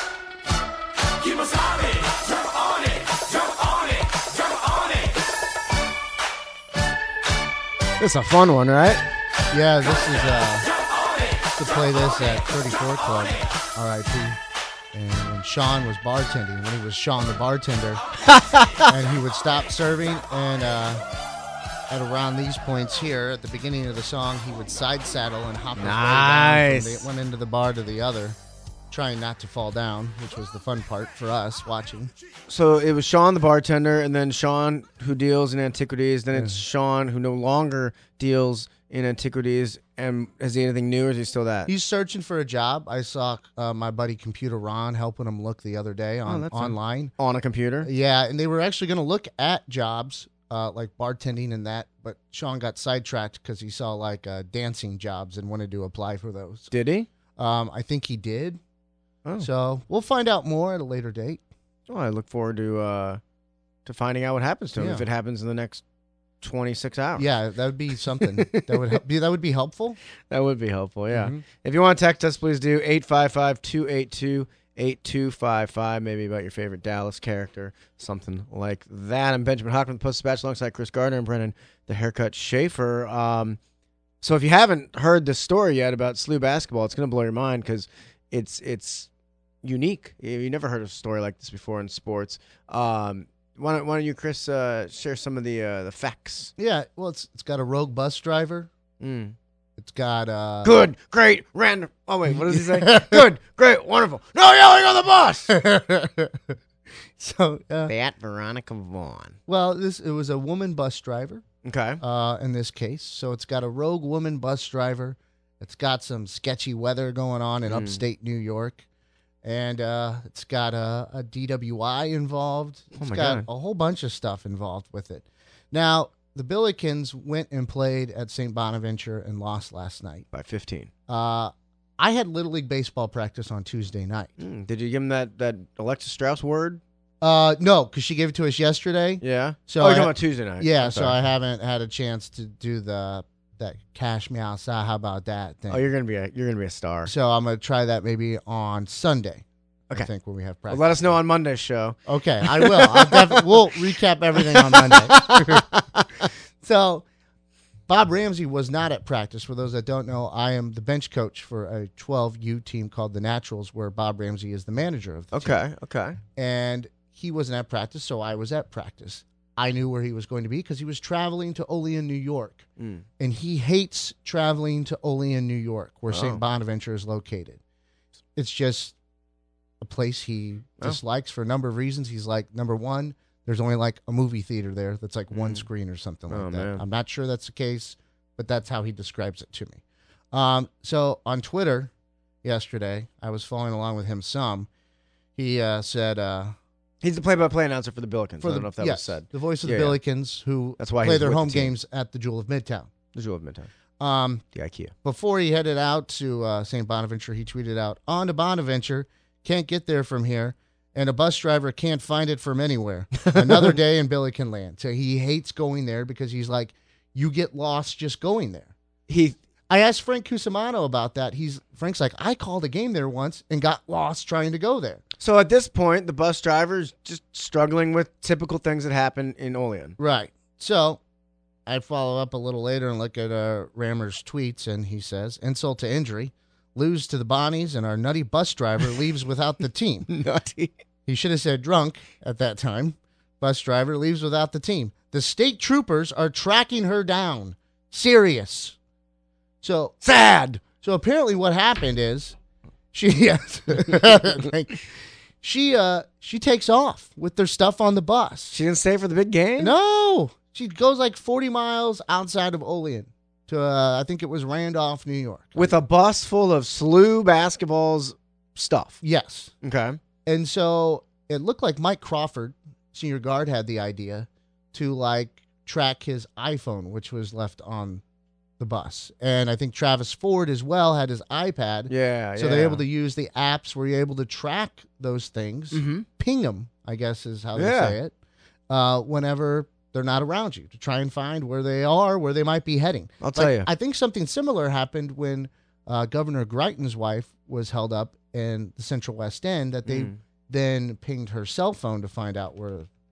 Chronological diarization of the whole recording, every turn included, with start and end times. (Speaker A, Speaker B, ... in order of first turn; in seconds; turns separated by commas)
Speaker A: 8.0-9.0, Speaker B: 9.5-10.7, Speaker B: 11.6-14.4, Speaker B: 14.9-18.0, Speaker A: 18.3-18.9, Speaker B: 18.8-21.0, Speaker B: 21.9-28.4, Speaker A: 25.8-27.1, Speaker B: 28.9-32.1, Speaker A: 32.5-41.7, Speaker B: 36.3-36.6, Speaker B: 41.7-47.1, Speaker A: 46.2-47.9, Speaker B: 47.8-56.7, Speaker A: 56.7-57.1, Speaker B: 57.4-58.6, Speaker B: 59.4-61.4, Speaker A: 61.9-63.2, Speaker A: 63.8-65.8, Speaker B: 64.8-65.1, Speaker A: 66.4-67.3, Speaker B: 67.2-70.0, Speaker A: 68.2-69.0, Speaker A: 70.3-83.6, Speaker B: 71.1-71.4, Speaker A: 84.2-89.1, Speaker A: 89.6-96.5, Speaker B: 96.6-98.7, Speaker A: 99.0-99.3, Speaker B: 99.8-100.8, Speaker A: 100.6-105.5, Speaker B: 102.3-103.3, Speaker B: 105.5-106.6, Speaker B: 107.2-107.9, Speaker A: 107.8-109.4, Speaker B: 109.5-111.4, Speaker A: 111.6-112.0, Speaker B: 112.0-118.8, Speaker A: 117.7-118.0, Speaker B: 119.4-130.2, Speaker A: 123.0-123.5, Speaker A: 130.3-130.9, Speaker B: 131.1-134.4, Speaker A: 134.4-136.8, Speaker B: 137.2-145.8, Speaker A: 139.2-141.2, Speaker A: 145.7-147.1, Speaker B: 147.1-151.2, Speaker A: 150.7-153.6, Speaker B: 152.1-155.7, Speaker A: 154.3-156.3, Speaker B: 156.6-157.0, Speaker B: 157.9-165.6, Speaker A: 165.3-166.2, Speaker B: 166.3-172.7, Speaker A: 172.8-173.0, Speaker B: 173.2-177.6, Speaker A: 176.1-176.4, Speaker B: 178.3-178.9, Speaker B: 179.8-189.8, Speaker A: 185.3-185.6, Speaker A: 186.3-186.8, Speaker B: 190.3-191.9, Speaker B: 192.4-194.7, Speaker B: 195.3-196.5, Speaker A: 197.0-200.0, Speaker B: 198.4-202.9, Speaker A: 200.8-201.7, Speaker A: 203.1-203.7, Speaker B: 204.0-204.4, Speaker A: 204.5-204.9, Speaker B: 205.0-218.7, Speaker A: 213.3-213.7, Speaker A: 219.1-219.3, Speaker B: 219.7-225.0, Speaker A: 225.2-230.0, Speaker B: 230.0-231.0, Speaker B: 231.7-240.1, Speaker A: 240.1-240.7, Speaker B: 241.1-248.8, Speaker B: 249.6-250.0, Speaker A: 250.0-250.6, Speaker B: 250.8-252.3, Speaker B: 252.9-254.8, Speaker B: 255.4-258.6, Speaker A: 258.5-259.7, Speaker B: 259.6-265.8, Speaker A: 265.5-269.0, Speaker B: 269.0-269.5, Speaker A: 269.6-270.0, Speaker B: 270.2-278.0, Speaker B: 278.6-288.1, Speaker A: 281.9-282.8, Speaker A: 285.7-286.1, Speaker A: 287.5-288.0, Speaker B: 288.7-302.9, Speaker A: 293.2-293.7, Speaker A: 299.9-300.2